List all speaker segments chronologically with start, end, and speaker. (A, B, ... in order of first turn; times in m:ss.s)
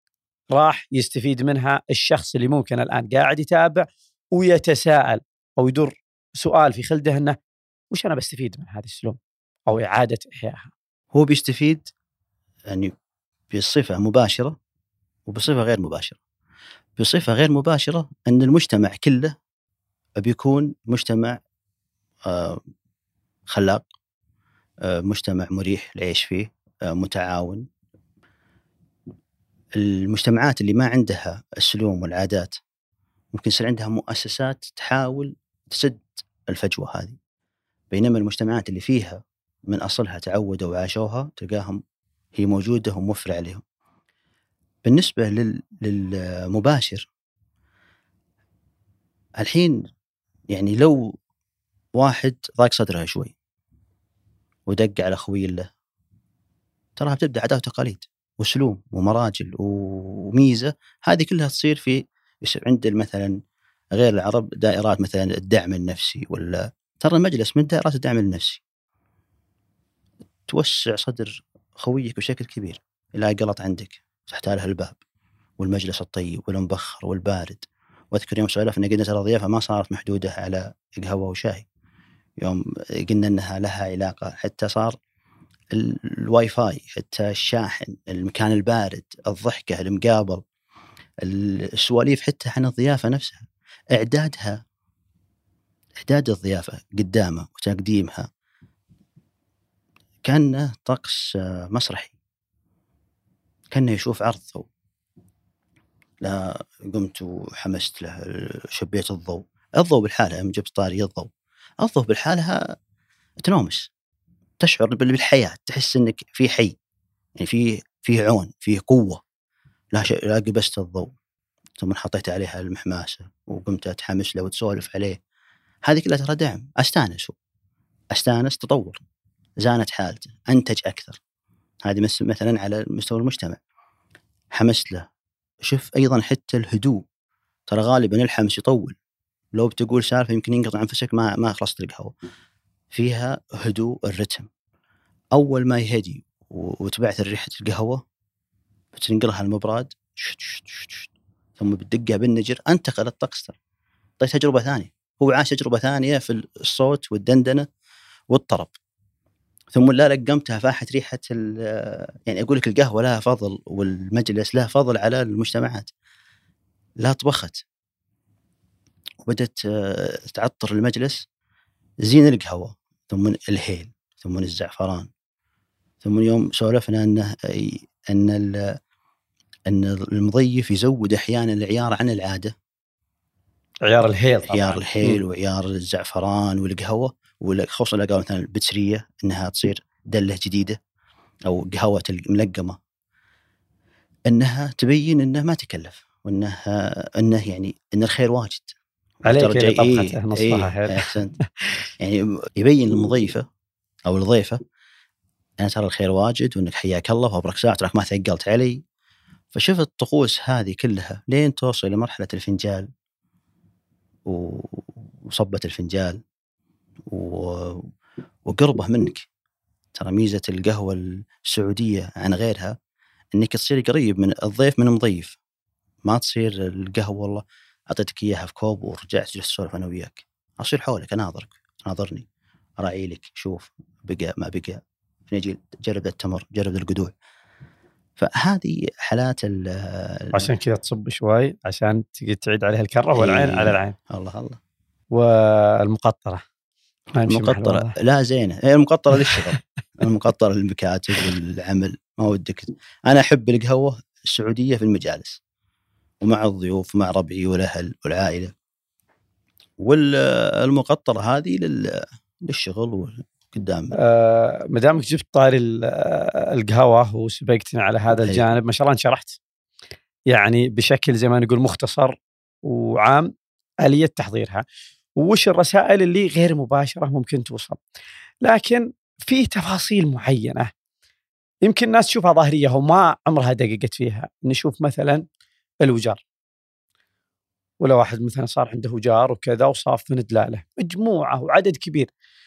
0:00.5-0:07.4 A
0:07.9-0:10.7 A
0:11.1-0:11.9 B
0:12.7-0:12.9 B
0:13.5-0:14.6 B
0:15.3-0:16.2 B
0:17.0-0:19.4 B
0:20.2-0:21.4 B
0:22.3-0:22.6 B
0:23.5-0:23.8 B
0:24.8-0:27.7 B
0:29.8-0:32.6 B
0:33.3-0:37.2 B
0:37.9-0:41.8 B
0:42.4-0:43.6 B
0:44.8-0:47.1 B
0:49.4-0:49.8 B
0:50.5-0:51.1 B
0:52.0-0:53.3 B
0:54.7-0:55.7 B
0:57.0-1:03.4 B
1:03.9-1:08.6 B
1:10.5-1:15.0 B
1:15.6-1:21.7 B
1:22.4-1:25.0 B
1:25.7-1:30.4 B
1:31.2-1:34.6 B
1:36.0-1:38.3 B
1:40.2-1:42.1 B
1:43.7-1:44.7 B
1:46.2-1:51.3 B
1:51.8-1:52.8 B
1:53.4-1:53.9 B
1:54.6-1:56.8 B
1:57.4-1:59.2 B
1:59.9-2:01.1 B
2:01.8-2:05.2 B
2:05.8-2:07.4 B
2:08.1-2:09.0 B
2:09.6-2:11.2 B
2:11.8-2:13.6 B
2:14.5-2:15.1 B
2:15.6-2:17.0 B
2:17.7-2:19.0 B
2:19.5-2:22.1 B
2:22.9-2:24.5 B
2:25.3-2:28.0 B
2:28.9-2:33.6 B
2:34.2-2:37.7 B
2:38.3-2:38.7 B
2:39.7-2:45.9 B
2:47.0-2:47.6 B
2:49.2-2:51.2 B
2:52.0-2:55.1 B
2:56.0-2:58.8 B
2:59.7-3:02.5 B
3:03.8-3:05.2 A
3:04.5-3:10.8 B
3:11.5-3:12.8 B
3:14.3-3:18.7 B
3:19.3-3:21.1 A
3:19.3-3:21.4 B
3:22.0-3:23.4 B
3:24.1-3:24.6 B
3:25.6-3:28.8 B
3:29.5-3:32.9 B
3:34.3-3:36.2 B
3:37.1-3:37.9 B
3:38.5-3:39.3 B
3:40.0-3:42.8 B
3:43.3-3:45.4 B
3:46.1-3:52.2 B
3:52.8-3:57.1 B
3:58.2-4:00.5 B
4:00.3-4:04.0 A
4:03.2-4:04.6 B
4:05.1-4:06.4 A
4:07.2-4:07.9 A
4:07.3-4:15.4 B
4:16.2-4:18.5 B
4:19.8-4:24.0 B
4:24.0-4:29.4 A
4:28.2-4:28.5 B
4:30.3-4:33.3 A
4:33.8-4:34.6 A
4:35.2-4:37.8 A
4:38.4-4:40.7 A
4:41.6-4:45.2 A
4:45.8-4:46.2 A
4:47.8-4:52.1 A